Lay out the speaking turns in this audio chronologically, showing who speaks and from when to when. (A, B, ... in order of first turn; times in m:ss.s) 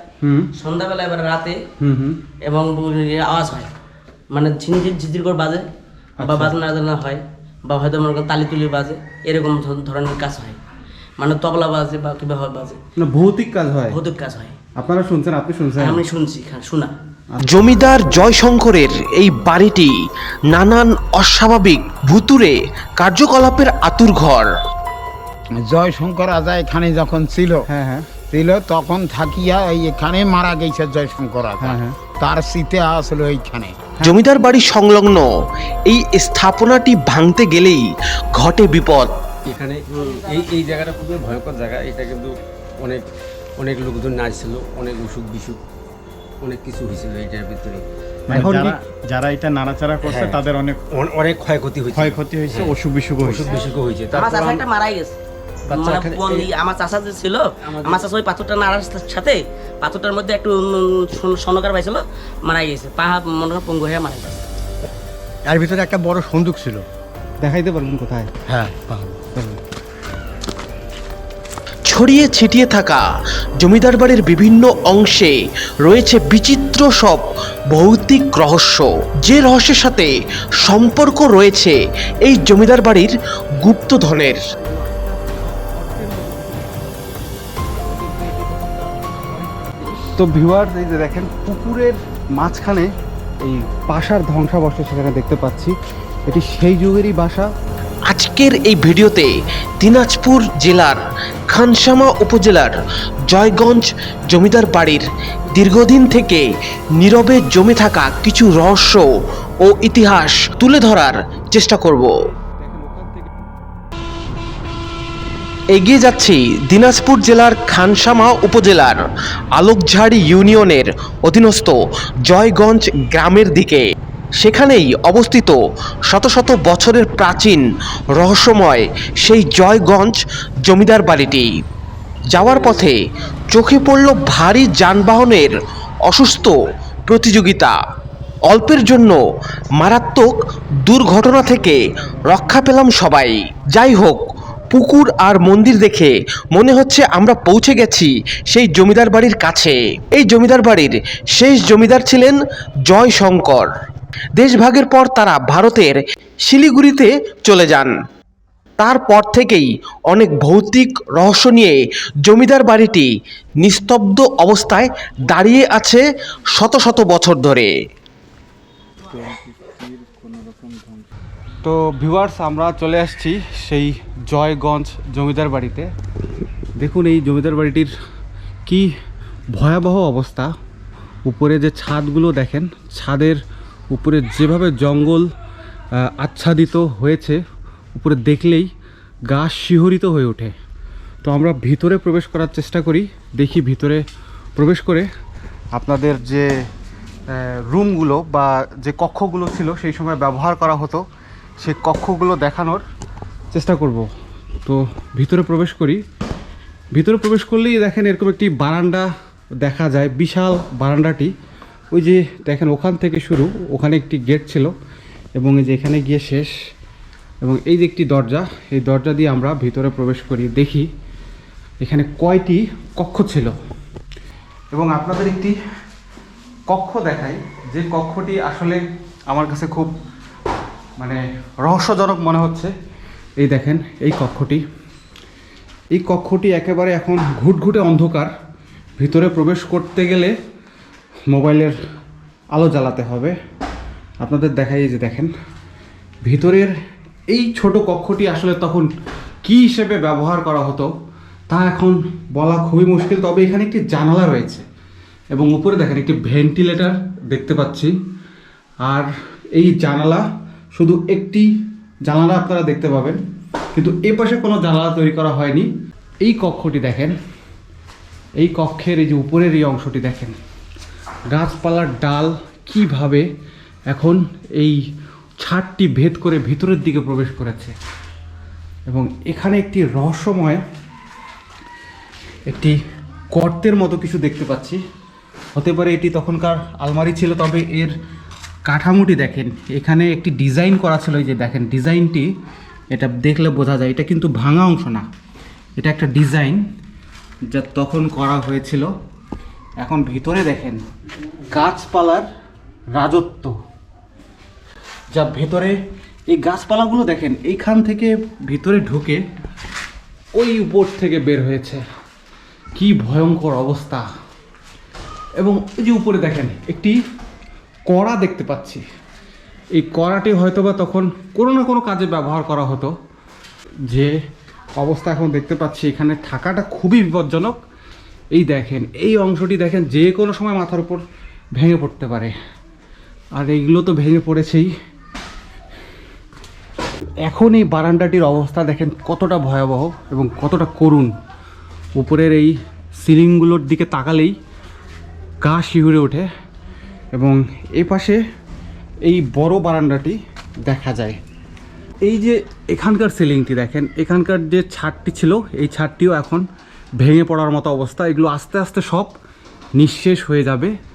0:00.2-0:00.5 A
0:00.6-0:01.6 B
0:01.8-0:02.2 A
0:02.4-0:03.7 B
0:04.3-0:05.7 B
0:06.2-0:06.6 A
0:06.2-0:10.6 B
0:11.2-0:12.8 B
0:13.0-0:14.0 A
0:13.9-0:14.6 B
0:14.8-0:16.0 A
0:15.8-0:16.9 B
0:17.3-0:17.6 A
0:17.4-0:19.9 C
0:20.5-0:24.5 C
0:25.6-0:27.7 D
0:27.6-0:28.1 A
0:28.3-0:33.9 D
0:31.6-0:32.0 A
0:34.0-0:39.1 C
0:39.4-0:43.0 E
0:39.9-0:40.3 B
0:43.6-0:45.6 E
0:46.4-0:47.8 E
0:48.3-0:50.8 F
0:48.3-0:48.8 A
0:50.0-0:54.6 E
0:51.9-0:53.5 F
0:54.1-0:55.2 B
0:55.7-0:56.5 E
0:55.7-1:04.4 B
0:57.6-0:58.0 E
1:05.4-1:06.8 G
1:07.4-1:08.3 A
1:08.5-1:09.2 G
1:09.3-1:09.6 A
1:11.9-1:13.0 C
1:13.6-1:24.5 C
1:25.3-1:26.9 F
1:27.8-1:29.7 F
1:30.2-1:32.9 A
1:33.4-1:37.5 A
1:38.1-1:42.7 C
1:43.3-1:49.1 C
1:49.6-1:52.1 C
1:52.3-1:53.4 A
1:55.7-1:59.0 C
1:59.5-2:03.8 C
2:04.4-2:11.5 C
2:12.3-2:17.8 C
2:18.4-2:19.2 C
2:19.8-2:33.7 C
2:34.4-2:37.9 C
2:38.8-2:47.7 C
2:49.0-2:51.1 F
2:51.6-2:55.9 A
2:56.8-2:57.9 A
2:58.6-2:58.9 A
2:59.5-3:00.5 A
3:01.2-3:03.4 A
3:03.9-3:05.3 A
3:05.9-3:07.4 A
3:07.9-3:08.7 A
3:09.3-3:10.5 A
3:11.2-3:14.0 A
3:14.6-3:15.1 A
3:15.7-3:16.5 A
3:17.3-3:21.0 A
3:21.6-3:22.8 A
3:23.5-3:24.1 A
3:24.6-3:26.0 A
3:26.9-3:29.1 A
3:29.6-3:31.3 A
3:31.9-3:34.7 A
3:35.4-3:36.5 A
3:37.4-3:40.9 A
3:41.8-3:43.5 A
3:44.7-3:45.6 A
3:46.7-3:49.9 A
3:51.0-3:52.7 A
3:53.4-3:54.6 A
3:55.9-3:58.3 A
3:59.0-4:00.3 A
4:01.3-4:01.8 A
4:02.5-4:03.4 A
4:04.2-4:05.3 A
4:06.2-4:06.7 A
4:07.3-4:08.9 A
4:09.4-4:10.9 A
4:11.5-4:14.6 A
4:15.3-4:17.9 A
4:18.8-4:21.5 A
4:22.0-4:23.2 A
4:23.7-4:25.7 A
4:26.2-4:27.1 A
4:28.4-4:30.3 A
4:31.3-4:33.2 A
4:33.9-4:34.8 A
4:35.4-4:37.7 A
4:38.9-4:40.6 A
4:42.4-4:42.8 A
4:43.3-4:44.8 A
4:45.5-4:47.9 A
4:48.6-4:52.3 A
4:52.9-4:55.0 A
4:55.8-4:56.6 A
4:57.5-4:58.9 A
4:59.8-5:00.8 A
5:01.5-5:02.3 A
5:02.9-5:03.5 A
5:05.1-5:05.8 A
5:06.3-5:09.2 A
5:10.4-5:11.8 A
5:12.7-5:14.0 A
5:15.4-5:17.0 A
5:17.9-5:18.8 A
5:19.7-5:22.9 A
5:23.9-5:24.1 A
5:24.8-5:27.6 A
5:28.3-5:31.0 A
5:31.5-5:32.3 A
5:33.3-5:34.7 A
5:37.2-5:41.1 A
5:42.0-5:44.4 A
5:45.4-5:46.2 A
5:47.1-5:48.2 A
5:49.0-5:51.2 A
5:52.0-5:56.4 A
5:57.0-5:59.1 A
5:59.8-6:00.7 A